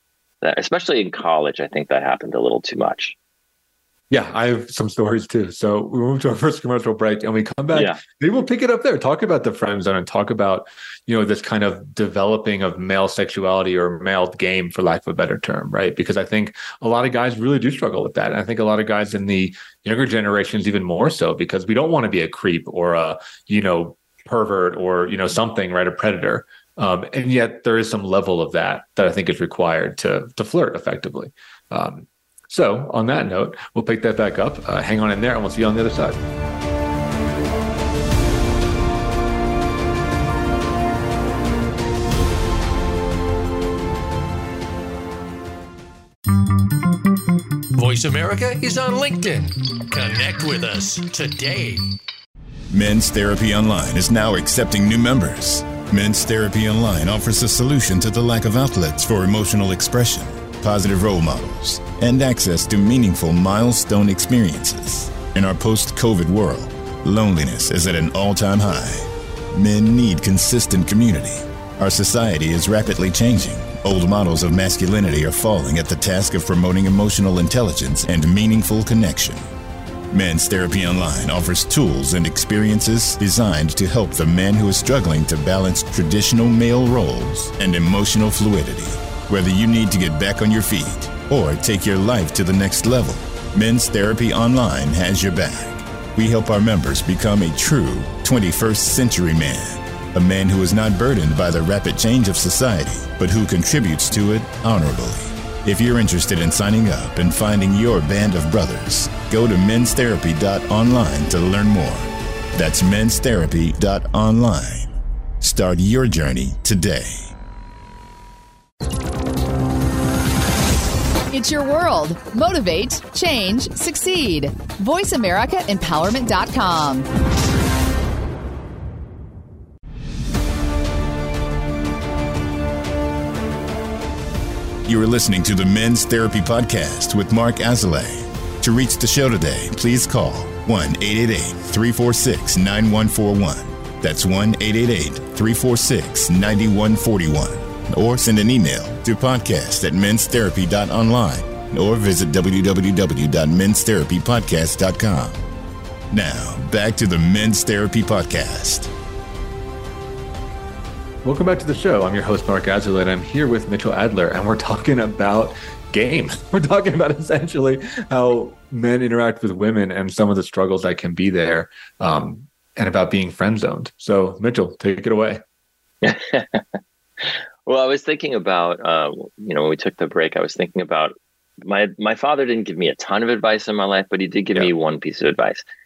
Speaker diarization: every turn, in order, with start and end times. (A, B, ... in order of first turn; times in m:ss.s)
0:00.4-0:03.1 A
0:04.1-0:36.2 B
0:07.7-0:08.0 A
0:47.8-0:51.9 C
0:52.7-1:19.4 D
1:20.1-1:57.3 D
2:01.3-2:07.1 E
2:14.8-2:35.4 D
2:36.1-2:38.9 D
2:41.2-2:55.4 B
2:56.0-3:05.6 A